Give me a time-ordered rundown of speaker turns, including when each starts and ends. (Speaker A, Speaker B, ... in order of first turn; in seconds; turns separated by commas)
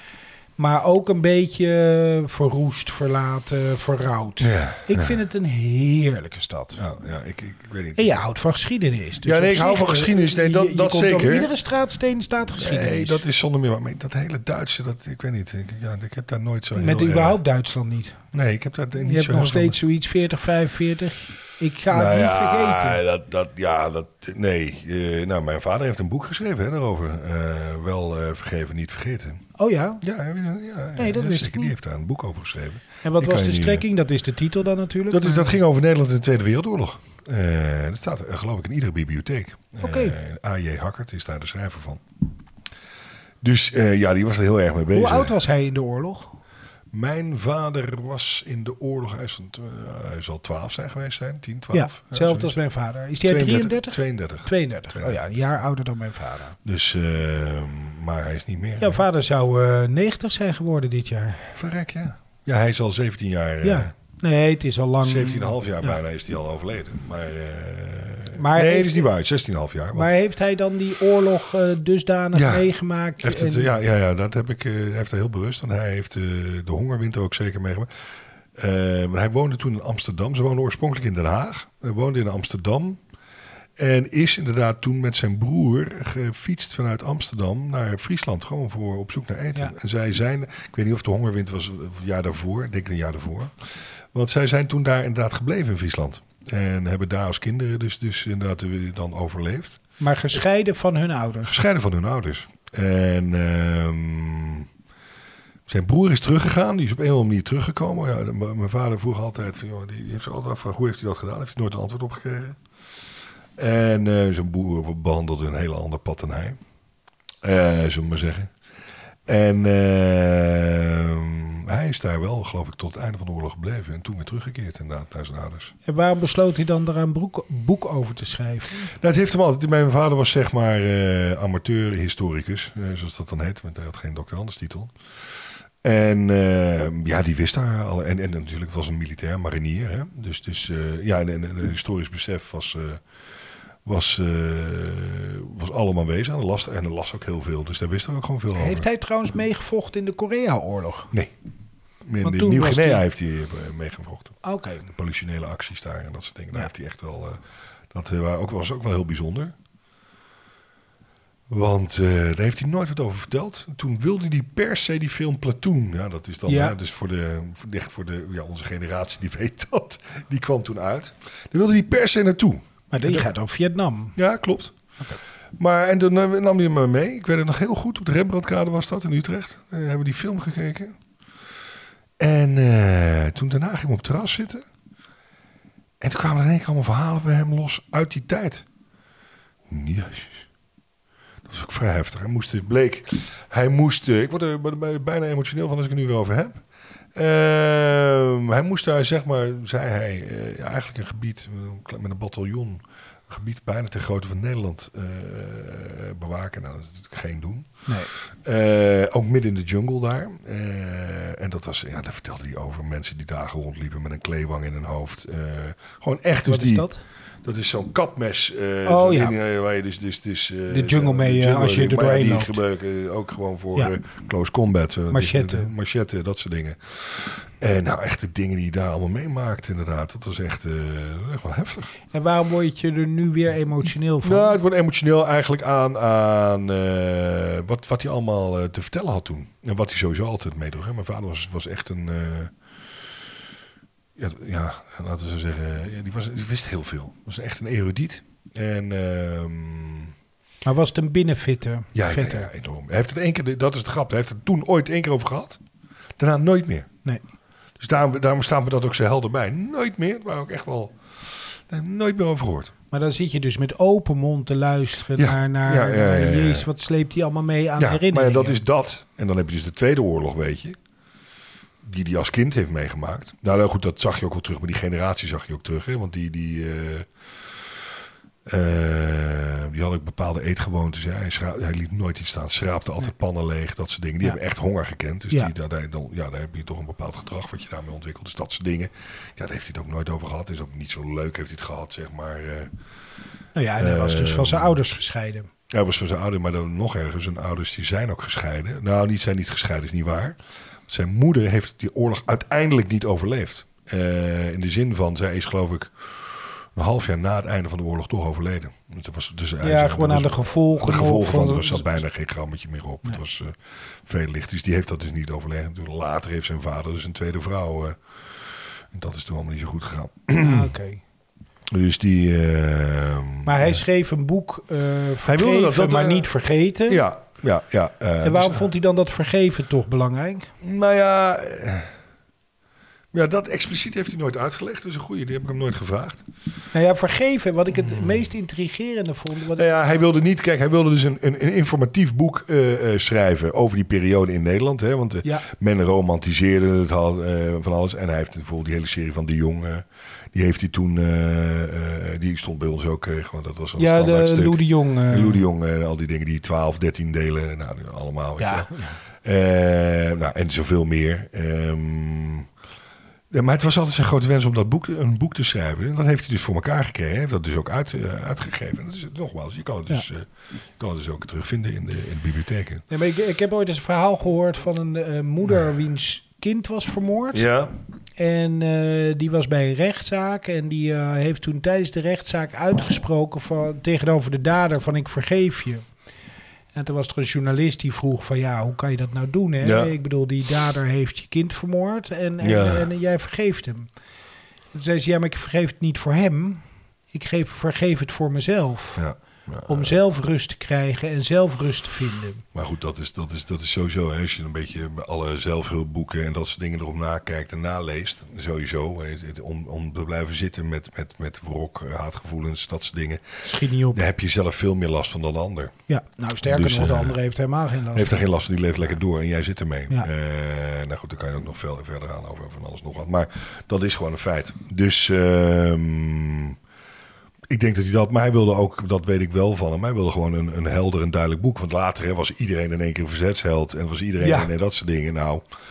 Speaker A: 0.6-6.8, Speaker B: 4.4-5.2, Speaker B: 6.8-8.1, Speaker A: 8.0-13.2, Speaker B: 9.2-11.5, Speaker B: 12.6-17.4, Speaker A: 16.8-18.2, Speaker B: 18.3-19.8, Speaker A: 19.0-23.0, Speaker B: 21.9-29.5, Speaker A: 29.6-30.0, Speaker B: 30.0-33.9, Speaker A: 31.0-31.7, Speaker A: 33.0-35.6, Speaker B: 35.1-42.0, Speaker A: 39.8-40.2, Speaker B: 43.4-45.3, Speaker A: 44.9-46.4, Speaker B: 46.9-52.5, Speaker A: 51.7-56.6, Speaker B: 53.3-55.5, Speaker B: 56.6-59.0, Speaker A: 58.8-61.5, Speaker B: 61.5-63.9, Speaker A: 63.6-66.0, Speaker B: 65.0-70.1, Speaker A: 68.3-69.1, Speaker A: 69.9-73.7, Speaker B: 72.3-72.7, Speaker B: 73.2-77.9, Speaker B: 78.6-83.0, Speaker B: 83.8-99.8, Speaker A: 100.0-101.6, Speaker B: 101.5-104.7, Speaker B: 105.7-112.6, Speaker B: 113.6-116.6, Speaker B: 117.4-118.5, Speaker B: 119.3-125.7, Speaker A: 125.8-128.9, Speaker B: 128.9-134.9, Speaker B: 135.8-143.0, Speaker B: 143.8-148.8, Speaker A: 148.6-151.1, Speaker B: 152.0-154.4, Speaker A: 152.2-153.0, Speaker A: 154.4-154.9, Speaker B: 154.9-157.4, Speaker B: 157.9-159.6, Speaker B: 161.5-173.3, Speaker A: 166.5-166.8, Speaker A: 172.9-174.2, Speaker B: 174.2-174.7, Speaker B: 175.6-181.0, Speaker B: 182.2-184.7, Speaker B: 186.0-188.7, Speaker B: 189.7-190.4, Speaker B: 191.5-196.6, Speaker B: 197.2-216.9, Speaker A: 207.9-208.1, Speaker A: 216.5-217.0, Speaker B: 217.4-231.9, Speaker A: 218.8-219.3, Speaker A: 220.7-222.6, Speaker A: 225.1-225.7, Speaker A: 232.1-234.6, Speaker B: 234.2-242.5, Speaker B: 244.2-250.1, Speaker A: 250.7-252.5, Speaker B: 251.9-255.6, Speaker B: 256.2-256.9, Speaker B: 257.8-262.7, Speaker A: 262.9-268.6, Speaker B: 265.2-266.7, Speaker B: 267.8-270.8, Speaker B: 271.8-277.1, Speaker B: 278.5-292.7, Speaker A: 293.6-295.5, Speaker B: 293.8-294.8, Speaker B: 295.7-320.7, Speaker A: 309.6-311.9, Speaker A: 320.4-321.0, Speaker B: 321.7-323.8, Speaker A: 323.4-327.1, Speaker B: 325.2-326.3, Speaker B: 326.9-328.7, Speaker A: 328.2-330.5, Speaker B: 330.6-331.9, Speaker B: 333.1-336.2, Speaker A: 336.7-339.7, Speaker B: 339.5-358.7, Speaker A: 353.8-355.4, Speaker A: 358.4-359.0, Speaker B: 359.2-362.5, Speaker B: 363.3-372.8, Speaker A: 372.9-377.5, Speaker B: 377.3-377.7, Speaker A: 378.2-385.9, Speaker A: 386.8-393.9, Speaker B: 389.6-389.9, Speaker B: 392.4-392.9, Speaker A: 394.7-399.0, Speaker B: 399.0-400.0, Speaker A: 399.7-402.4, Speaker B: 402.5-415.7, Speaker A: 413.4-414.0, Speaker A: 415.9-418.2, Speaker B: 416.5-417.2, Speaker B: 417.9-426.6, Speaker B: 427.5-435.4, Speaker A: 434.2-434.5